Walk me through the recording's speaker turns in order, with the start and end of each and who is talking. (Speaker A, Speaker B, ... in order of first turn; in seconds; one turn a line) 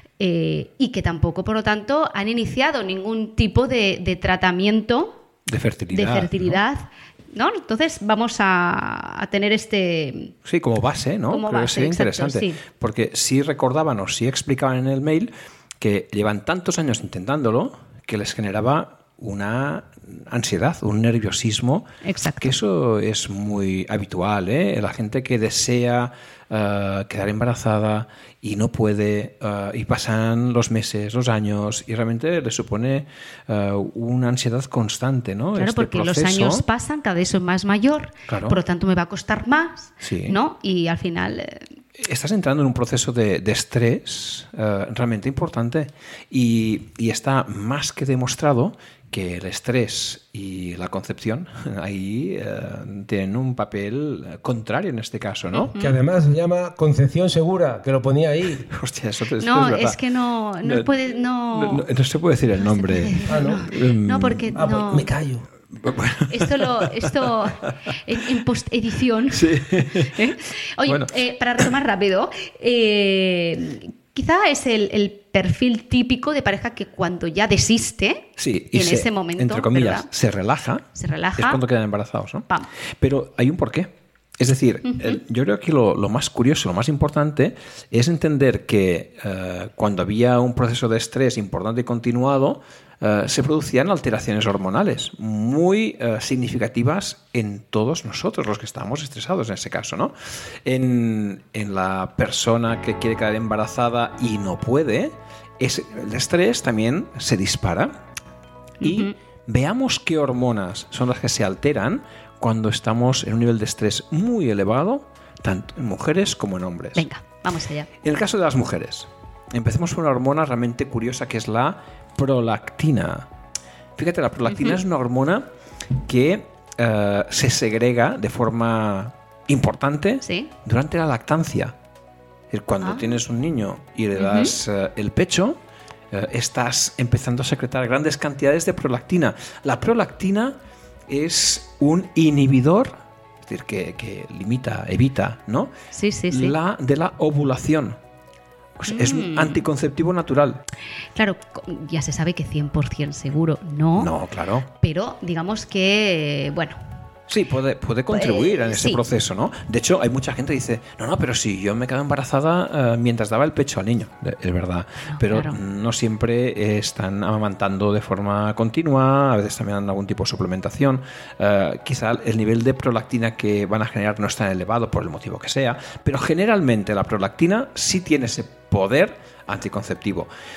Speaker A: 0.2-5.2
Speaker B: 5.5-6.6
Speaker A: 5.9-10.3
Speaker B: 10.4-21.9
Speaker A: 11.3-12.6
Speaker A: 22.0-22.6
Speaker B: 22.4-36.6
Speaker A: 35.6-41.7
Speaker B: 38.3-38.6
Speaker B: 40.0-40.4
Speaker B: 42.0-55.7
Speaker A: 55.5-56.0
Speaker C: 55.8-58.7
Speaker B: 58.7-60.0
Speaker A: 59.4-61.9
Speaker B: 60.6-60.9
Speaker B: 61.5-64.5
Speaker A: 62.6-65.1
Speaker C: 63.3-63.6
Speaker C: 64.5-65.5
Speaker B: 65.7-67.3
Speaker A: 66.3-80.1
Speaker B: 69.3-70.3
Speaker B: 70.9-71.6
Speaker B: 78.4-80.8
Speaker A: 81.0-81.6
Speaker B: 81.4-82.5
Speaker B: 83.0-100.1
Speaker A: 84.9-85.2
Speaker B: 100.7-108.0
Speaker A: 108.8-109.1
Speaker B: 108.8-117.1
Speaker A: 117.0-117.9
Speaker B: 118.0-123.3
Speaker B: 124.0-125.5
Speaker A: 124.5-124.8
Speaker B: 126.0-131.8
Speaker A: 130.2-130.5
Speaker B: 132.5-135.6
Speaker A: 132.8-133.1
Speaker A: 134.2-134.6
Speaker B: 136.1-140.6
Speaker B: 141.1-145.7
Speaker A: 145.9-146.6
Speaker B: 146.3-148.0
Speaker B: 148.8-150.6
Speaker A: 148.9-149.6
Speaker A: 151.2-154.1
Speaker B: 154.0-154.7
Speaker A: 154.8-156.8
Speaker B: 157.3-180.3
Speaker A: 158.1-159.0
Speaker A: 165.1-165.6